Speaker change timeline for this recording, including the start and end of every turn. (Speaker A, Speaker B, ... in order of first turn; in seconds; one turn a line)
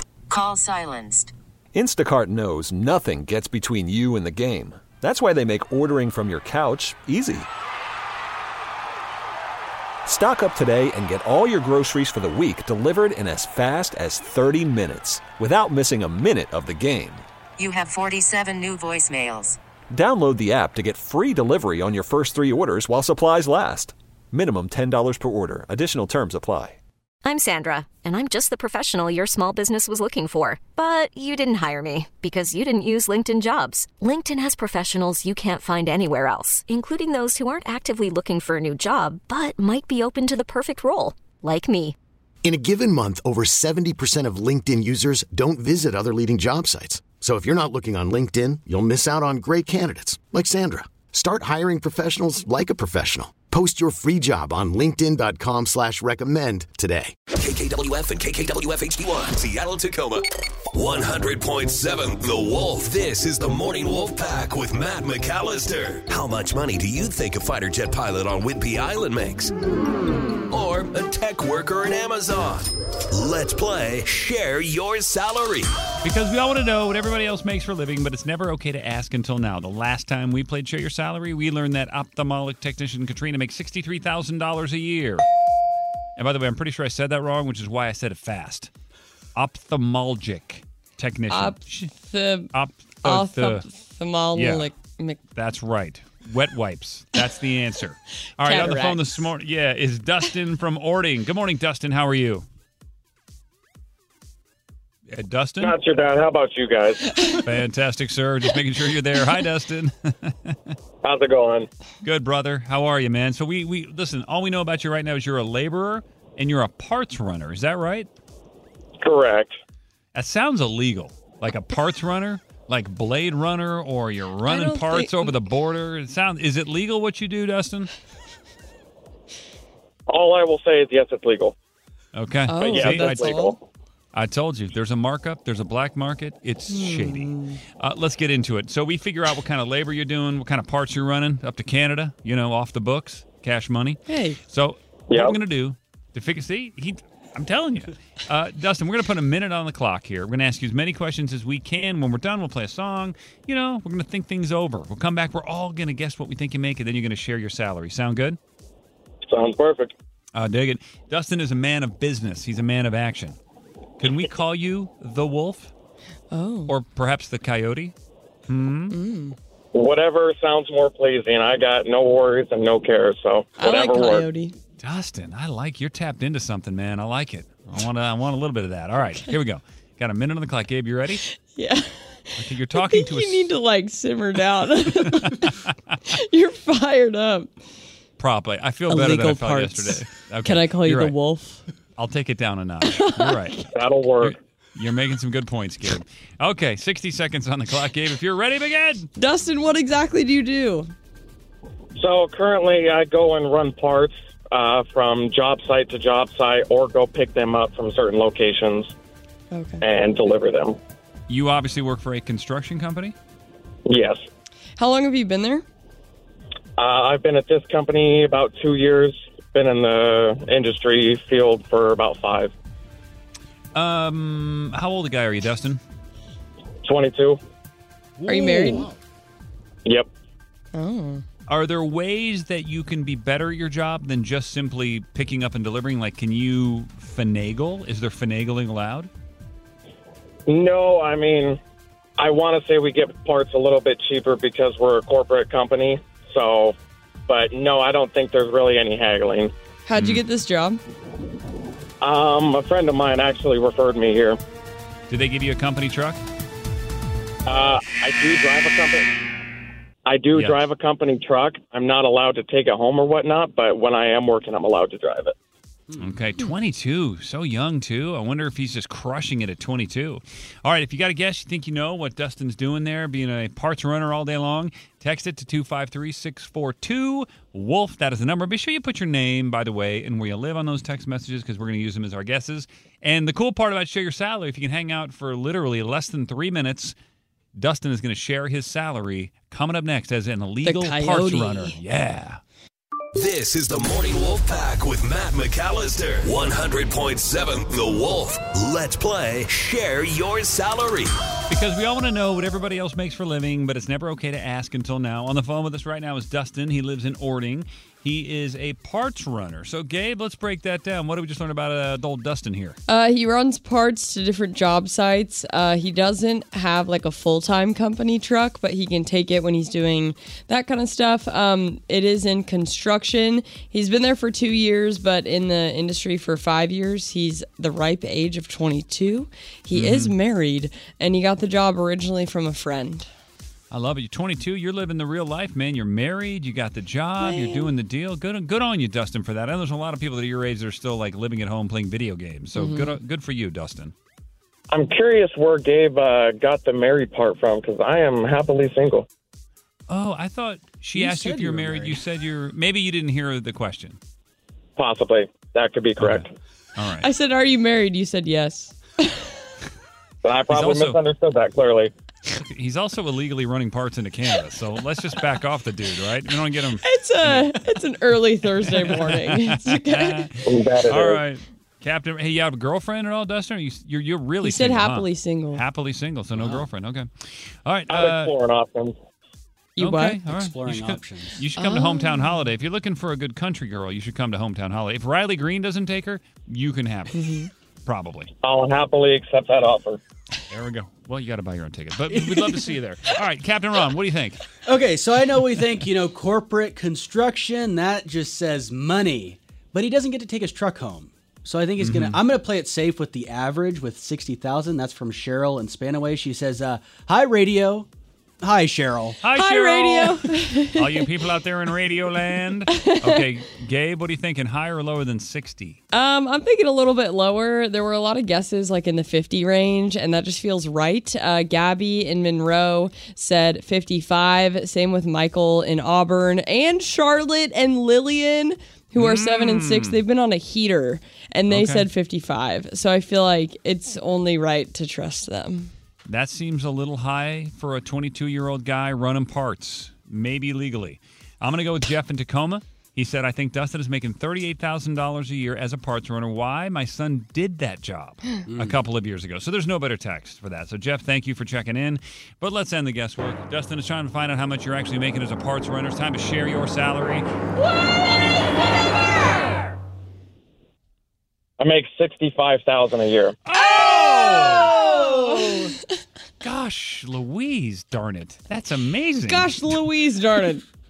Speaker A: 0.3-1.3
Speaker B: 1.7-7.5
Speaker B: 10.1-17.3
Speaker A: 17.6-19.6
Speaker B: 19.9-26.8
Speaker C: 27.2-42.0
Speaker D: 42.4-57.1
Speaker E: 57.3-69.5
Speaker E: 70.5-75.7
Speaker F: 76.0-85.2
Speaker F: 86.2-88.7
Speaker F: 89.3-92.0
Speaker G: 91.3-92.5
Speaker F: 92.5-93.6
Speaker G: 93.0-95.2
Speaker F: 94.3-94.7
Speaker F: 95.3-102.5
Speaker G: 98.4-99.2
Speaker F: 105.1-105.8
Speaker H: 105.6-107.2
Speaker F: 107.3-110.7
Speaker H: 111.0-111.7
Speaker F: 112.0-118.1
Speaker H: 119.0-119.6
Speaker F: 120.1-127.9
Speaker G: 124.5-125.3
Speaker H: 130.1-131.6
Speaker F: 132.1-133.4
Speaker G: 132.5-133.6
Speaker H: 132.7-133.6
Speaker F: 134.1-158.4
Speaker G: 136.7-137.6
Speaker G: 144.1-144.4
Speaker H: 145.1-145.4
Speaker H: 159.3-159.9
Speaker F: 160.3-163.4
Speaker F: 164.0-165.7
Speaker G: 166.3-166.7
Speaker F: 166.7-167.9
Speaker F: 168.5-169.0
Speaker G: 168.9-169.4
Speaker H: 169.7-174.3
Speaker G: 173.6-174.6
Speaker F: 174.8-181.2
Speaker G: 181.3-187.5
Speaker F: 182.4-183.5
Speaker F: 188.2-191.2
Speaker G: 188.9-191.6
Speaker F: 192.0-193.7
Speaker G: 192.9-193.5
Speaker H: 193.7-194.4
Speaker F: 194.2-199.1
Speaker G: 199.2-200.9
Speaker H: 202.0-208.9
Speaker G: 209.5-209.8
Speaker H: 209.8-210.8
Speaker F: 211.3-213.2
Speaker H: 213.9-214.2
Speaker G: 214.8-215.7
Speaker H: 216.8-222.5
Speaker F: 223.8-225.8
Speaker H: 226.8-227.4
Speaker I: 228.2-229.0
Speaker G: 228.3-228.9
Speaker G: 230.7-231.2
Speaker F: 231.5-239.1
Speaker H: 240.5-241.6
Speaker H: 242.2-246.8
Speaker H: 247.3-249.5
Speaker G: 249.9-250.8
Speaker F: 250.0-250.2
Speaker H: 252.0-254.4
Speaker F: 255.1-256.2
Speaker H: 257.5-259.1
Speaker H: 260.1-265.4
Speaker F: 260.3-260.6
Speaker I: 265.9-266.3
Speaker F: 266.0-286.9
Speaker F: 287.6-292.4
Speaker G: 290.6-291.8
Speaker E: 293.1-301.1
Speaker F: 301.5-312.8
Speaker G: 312.9-333.1
Speaker F: 329.7-330.1
Speaker F: 333.7-343.9
Speaker G: 337.2-337.7
Speaker G: 342.6-343.0
Speaker H: 344.7-349.1
Speaker F: 349.9-354.0
Speaker I: 350.9-352.0
Speaker H: 354.8-356.3
Speaker F: 356.0-357.1
Speaker G: 357.0-359.2
Speaker H: 360.2-361.9
Speaker F: 360.5-361.0
Speaker F: 362.4-367.5
Speaker G: 366.8-370.3
Speaker F: 368.7-377.1
Speaker H: 370.4-371.2
Speaker G: 374.4-375.6
Speaker I: 376.3-376.7
Speaker F: 377.6-378.4
Speaker H: 377.9-378.9
Speaker G: 379.8-380.2
Speaker F: 379.8-387.2
Speaker I: 380.2-381.4
Speaker G: 381.6-382.4
Speaker G: 387.1-387.5
Speaker F: 387.9-388.3
Speaker H: 388.4-390.0
Speaker F: 390.5-394.4
Speaker I: 392.1-392.7
Speaker I: 394.7-407.9
Speaker F: 401.8-402.2
Speaker I: 408.4-409.2
Speaker F: 409.2-415.8
Speaker G: 409.3-411.0
Speaker G: 415.9-435.7
Speaker F: 429.0-430.0
Speaker F: 431.5-431.9
Speaker F: 436.1-457.3
Speaker I: 448.5-448.8
Speaker H: 461.6-463.4
Speaker F: 463.5-465.7
Speaker G: 463.8-465.7
Speaker F: 466.4-469.8
Speaker G: 469.2-470.6